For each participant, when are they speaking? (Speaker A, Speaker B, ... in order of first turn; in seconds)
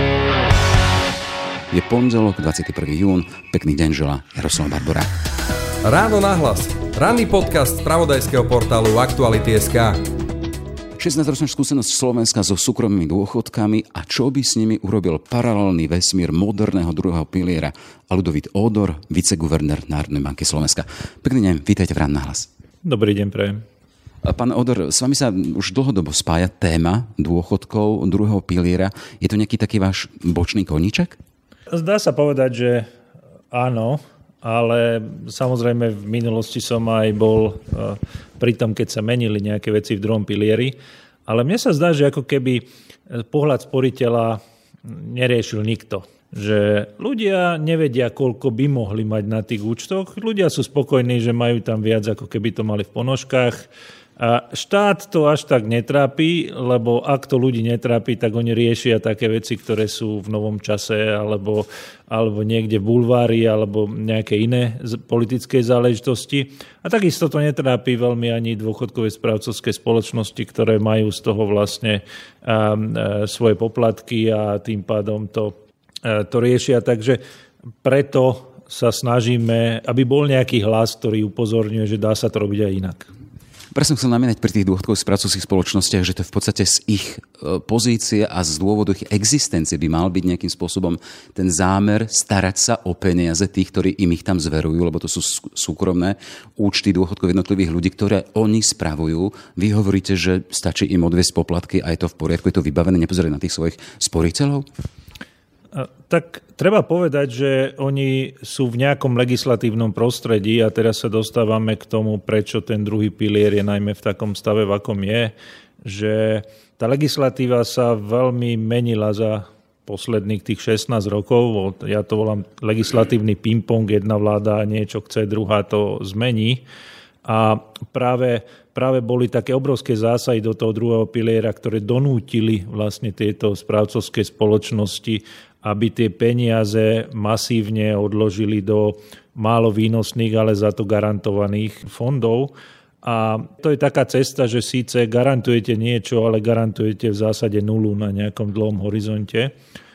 Speaker A: 1.7-5.1, 11.0-22.5, 24.2-31.2, 83.7-104.7
Speaker B: 5.8-10.0
Speaker C: 22.8-23.6, 31.7-32.9, 33.5-40.7, 41.3-53.7, 54.2-77.2, 77.8-83.1, 105.7-126.6, 127.2-149.5